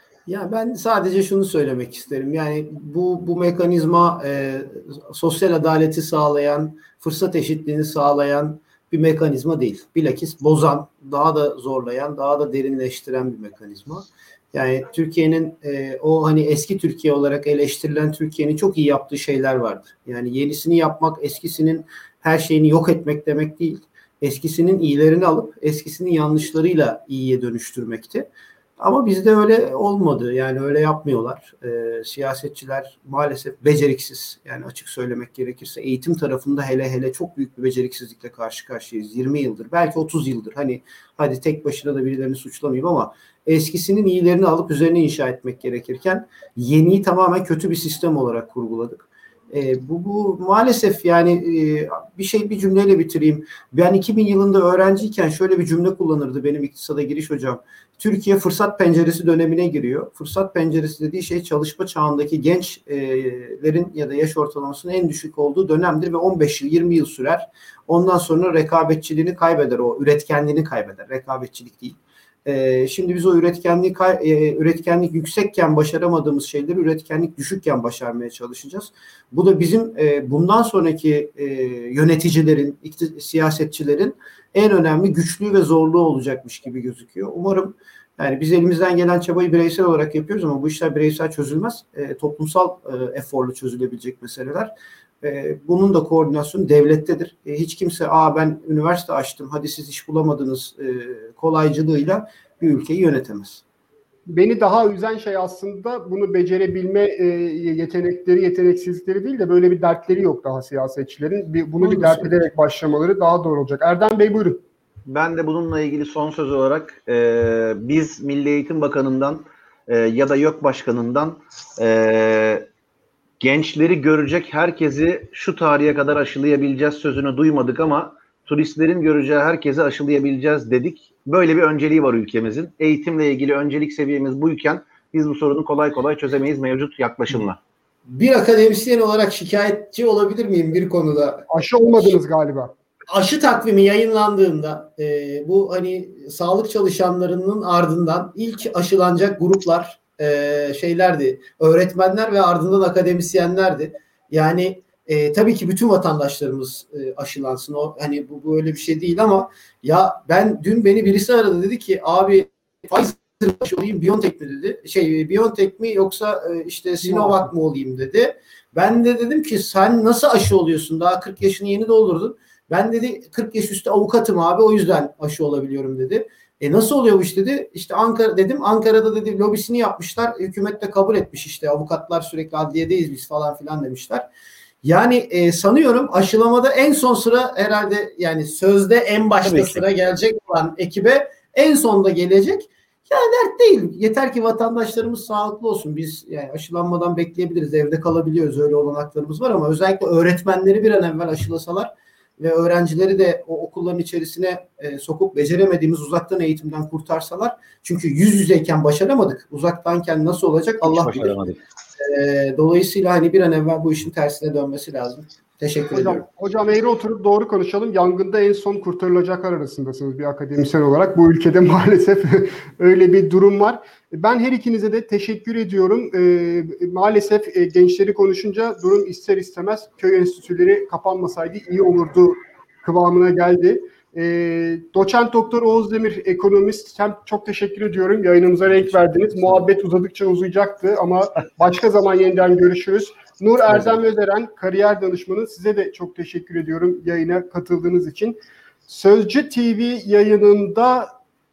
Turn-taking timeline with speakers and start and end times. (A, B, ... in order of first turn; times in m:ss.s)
0:00.3-1:43.6 A
1:44.3-1:54.6 B
1:51.8-1:52.4 A
1:55.1-2:02.6 C
2:03.4-2:17.6 C
2:18.1-2:21.5 A
2:21.5-2:22.7 B
2:23.1-3:04.3 A
2:47.0-2:47.4 B
3:04.8-3:31.4 A
3:09.4-3:09.8 C
3:30.8-3:31.6 C
3:32.0-3:36.2 A
3:35.9-4:11.1 B
3:58.7-3:59.5 C